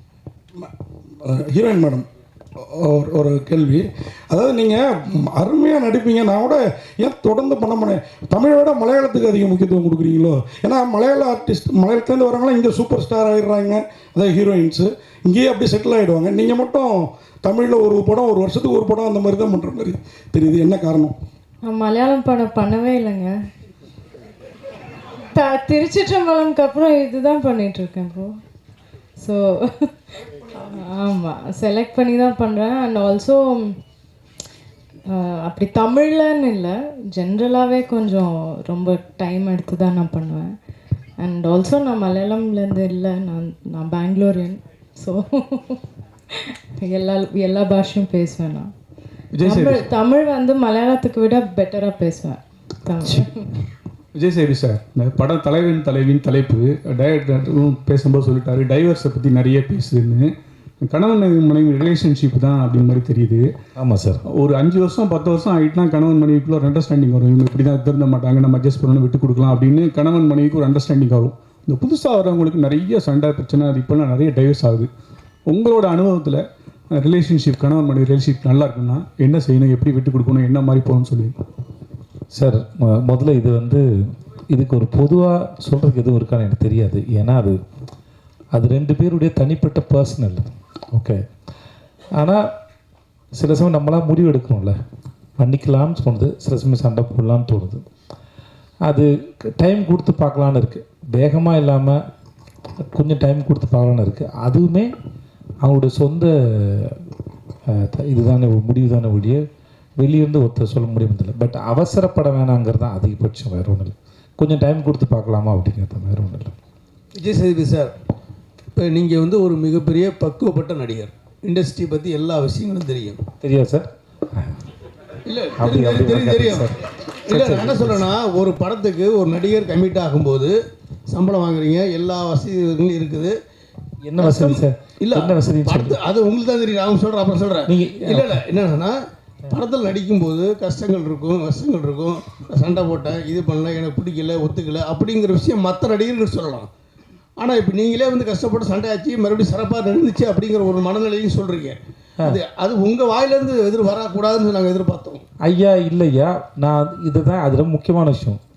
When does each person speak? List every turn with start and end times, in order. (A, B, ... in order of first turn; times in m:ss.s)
0:00.6-0:21.2 A
0:21.6-0:23.3 B
0:25.3-0:28.4 B
0:29.2-0:33.8 B
0:35.1-0:40.5 B
0:41.2-0:45.8 B
0:46.3-0:48.7 B
0:49.4-0:49.9 C
0:49.4-0:53.5 B
0:54.2-1:00.3 C
1:00.8-1:03.5 C
1:03.8-1:04.2 D
1:04.4-1:14.9 C
1:15.5-1:16.4 C
1:16.9-1:21.4 C
1:22.3-1:23.8 D
1:24.5-1:27.6 D
1:28.5-1:31.2 D
1:32.2-1:32.4 D
1:33.4-1:34.8 D
1:35.4-1:37.8 D
1:38.9-1:42.0 D
1:43.0-1:44.9 D
1:45.6-1:47.0 D
1:47.7-1:49.4 D
1:50.0-1:56.6 D
1:57.2-1:57.9 E
1:58.8-2:03.2 E
2:03.4-2:04.6 D
2:05.3-2:06.7 E
2:05.6-2:06.8 D
2:07.3-2:10.6 E
2:07.3-2:08.1 D
2:11.1-2:13.4 E
2:14.0-2:16.0 D
2:14.2-2:19.0 E
2:17.7-2:18.4 D
2:19.5-2:26.7 E
2:27.4-2:35.2 E
2:35.4-2:38.4 D